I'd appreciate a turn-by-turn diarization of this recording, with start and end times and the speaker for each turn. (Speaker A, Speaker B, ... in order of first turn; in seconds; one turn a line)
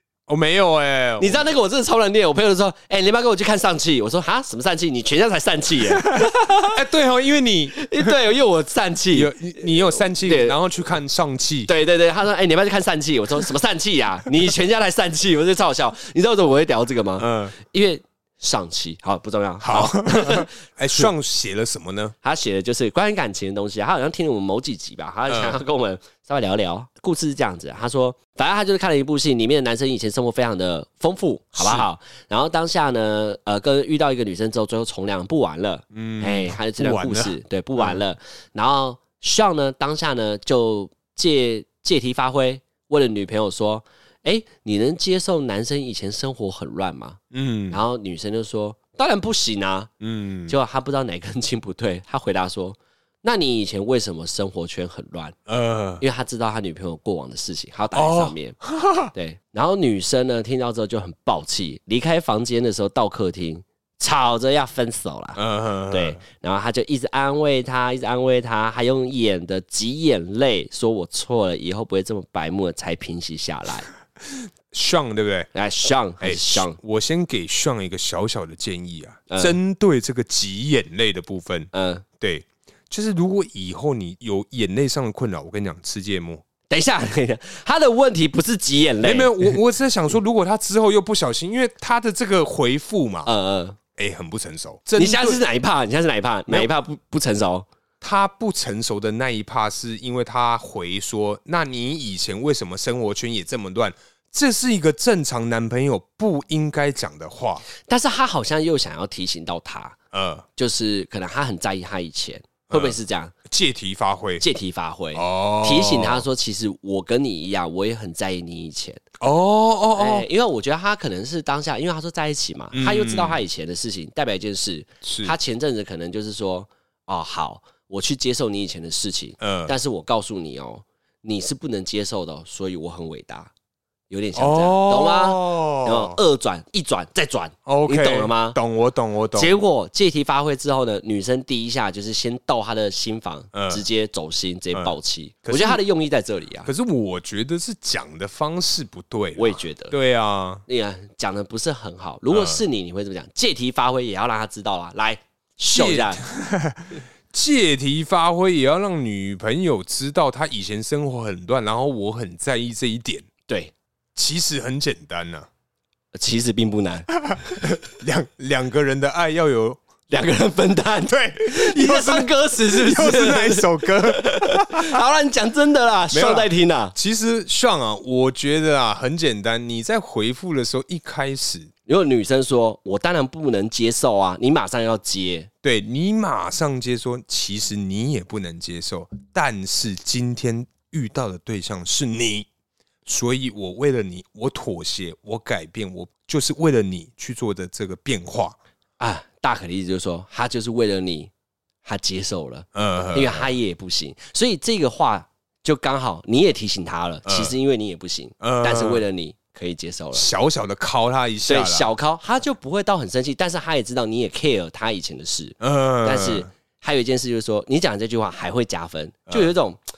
Speaker A: 0.3-1.4
Speaker B: 1.2-6.8
Speaker A: 5.9-8.1
Speaker B: 7.8-10.6
Speaker A: 9.1-11.7
Speaker B: 11.7-21.1
Speaker A: 17.2-17.5
Speaker A: 19.6-22.1
Speaker B: 22.2-49.9
Speaker A: 25.3-25.6
Speaker A: 31.6-31.9
Speaker A: 35.9-38.0
Speaker A: 47.3-47.8
Speaker A: 50.0-50.5
Speaker B: 50.5-55.4
Speaker A: 55.5-56.0
Speaker B: 56.0-58.6
Speaker A: 57.9-59.1
Speaker B: 59.1-73.9
Speaker A: 65.4-66.2
Speaker A: 74.2-75.5
Speaker B: 75.5-76.8
Speaker A: 76.2-86.4
Speaker B: 79.3-79.6
Speaker B: 81.7-82.0
Speaker B: 86.7-89.6
Speaker A: 89.0-93.3
Speaker B: 93.3-93.8
Speaker A: 94.0-95.4
Speaker B: 95.0-97.7
Speaker A: 98.0-107.6
Speaker B: 107.8-110.0
Speaker A: 110.1-110.5
Speaker B: 110.6-113.3
Speaker A: 112.7-113.0
Speaker A: 113.5-114.4
Speaker B: 114.4-119.0
Speaker A: 115.1-116.2
Speaker A: 119.2-120.3
Speaker B: 120.0-133.5
Speaker A: 122.7-123.4
Speaker A: 125.0-125.4
Speaker A: 129.4-129.7
Speaker B: 134.1-138.6
Speaker A: 134.4-136.2
Speaker A: 137.7-139.6
Speaker B: 139.3-146.7
Speaker A: 143.5-143.8
Speaker A: 144.7-145.8
Speaker A: 146.6-150.6
Speaker B: 149.4-149.9
Speaker B: 150.7-156.2
Speaker A: 152.3-152.6
Speaker A: 155.7-163.3
Speaker B: 163.5-163.7
Speaker A: 164.2-165.5
Speaker B: 166.1-167.8
Speaker A: 167.6-169.8
Speaker B: 170.1-176.9
Speaker A: 171.1-175.0
Speaker A: 176.1-181.7
Speaker B: 181.9-185.5
Speaker A: 185.6-192.5
Speaker A: 193.1-198.6
Speaker B: 199.0-201.3
Speaker B: 201.8-210.2
Speaker A: 202.7-203.5
Speaker A: 207.3-207.6
Speaker A: 208.4-209.1
Speaker A: 210.1-211.9
Speaker B: 211.4-219.8
Speaker A: 215.6-216.5